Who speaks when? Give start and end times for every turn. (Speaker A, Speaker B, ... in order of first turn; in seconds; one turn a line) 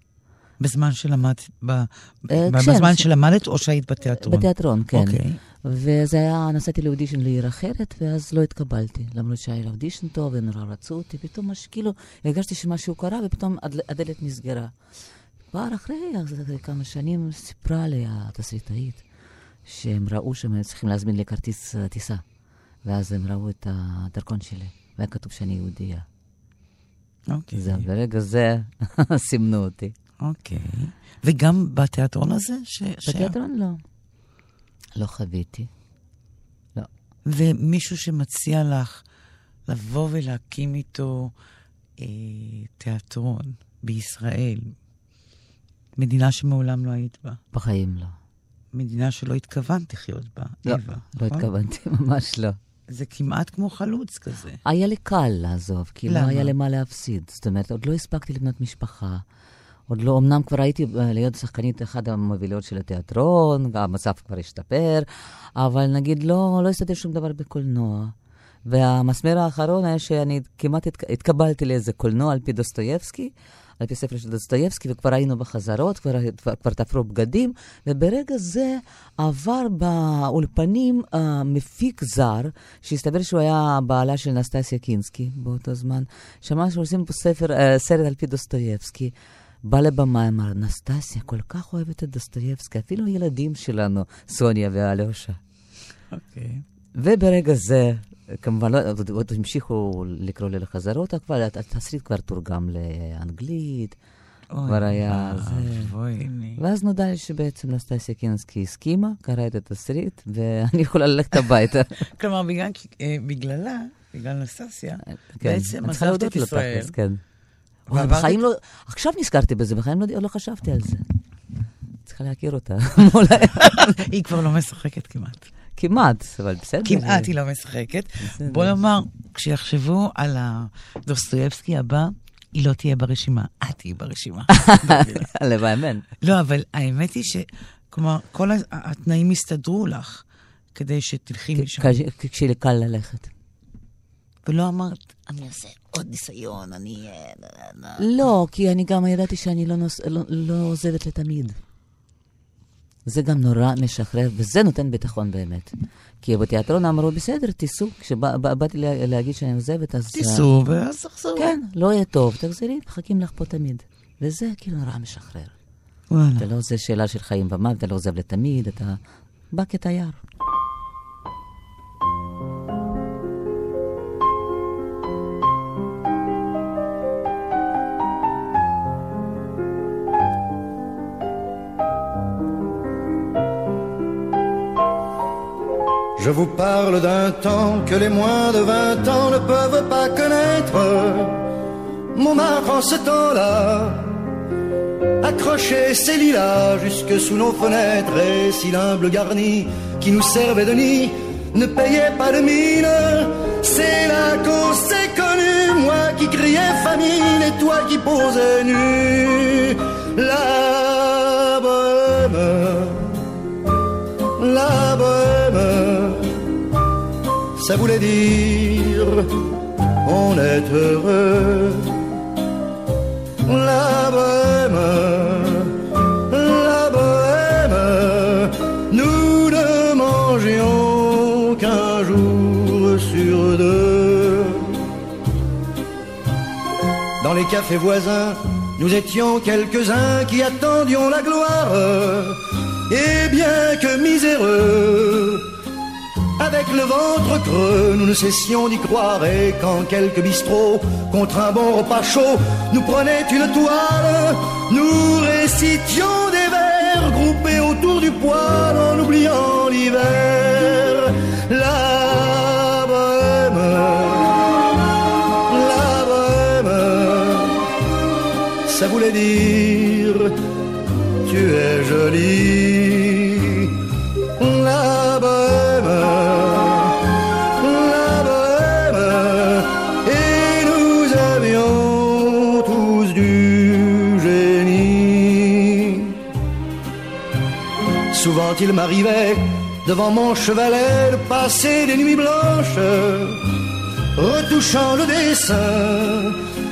Speaker A: 0.6-5.4
Speaker B: 2.3-3.1
Speaker B: 4.2-14.7
Speaker B: 15.5-19.1
Speaker B: 19.6-22.2
Speaker B: 22.8-26.1
Speaker A: 27.3-27.9
Speaker B: 27.5-29.9
Speaker A: 30.2-33.4
Speaker B: 33.1-33.8
Speaker B: 35.0-35.7
Speaker A: 37.3-39.0
Speaker A: 39.7-41.3
Speaker A: 42.0-44.8
Speaker A: 46.0-47.4
Speaker B: 47.5-48.2
Speaker A: 48.7-51.5
Speaker B: 50.6-52.6
Speaker A: 52.9-54.6
Speaker B: 54.6-59.2
Speaker A: 56.1-56.5
Speaker B: 59.9-89.1
Speaker B: 89.7-95.4
Speaker A: 96.1-96.6
Speaker B: 97.0-104.0
Speaker A: 104.5-106.6
Speaker B: 104.7-105.9
Speaker B: 106.6-112.1
Speaker A: 112.1-117.0
Speaker B: 115.1-117.2
Speaker B: 117.9-121.0
Speaker A: 117.9-118.4
Speaker B: 122.0-124.0
Speaker A: 123.6-125.5
Speaker B: 125.8-127.3
Speaker A: 126.8-135.3
Speaker B: 128.2-128.8
Speaker B: 134.5-136.1
Speaker A: 136.2-141.9
Speaker B: 141.6-143.3
Speaker A: 144.4-148.1
Speaker B: 148.0-151.6
Speaker B: 153.1-160.5
Speaker A: 160.1-161.5
Speaker B: 161.4-165.5
Speaker A: 166.1-166.5
Speaker B: 166.4-169.0
Speaker B: 169.5-170.2
Speaker C: 186.2-191.4
Speaker C: 192.1-194.2
Speaker C: 195.2-213.2
Speaker C: 214.4-216.4
Speaker C: 217.6-219.4
Speaker C: 220.0-222.0
Speaker C: 223.4-234.8
Speaker C: 237.2-245.5
Speaker C: 246.4-264.4
Speaker C: 265.5-267.7
Speaker C: 268.7-270.4
Speaker C: 271.2-273.7
Speaker C: 274.4-277.0
Speaker C: 277.6-286.2
Speaker C: 288.1-293.4
Speaker C: 294.1-296.4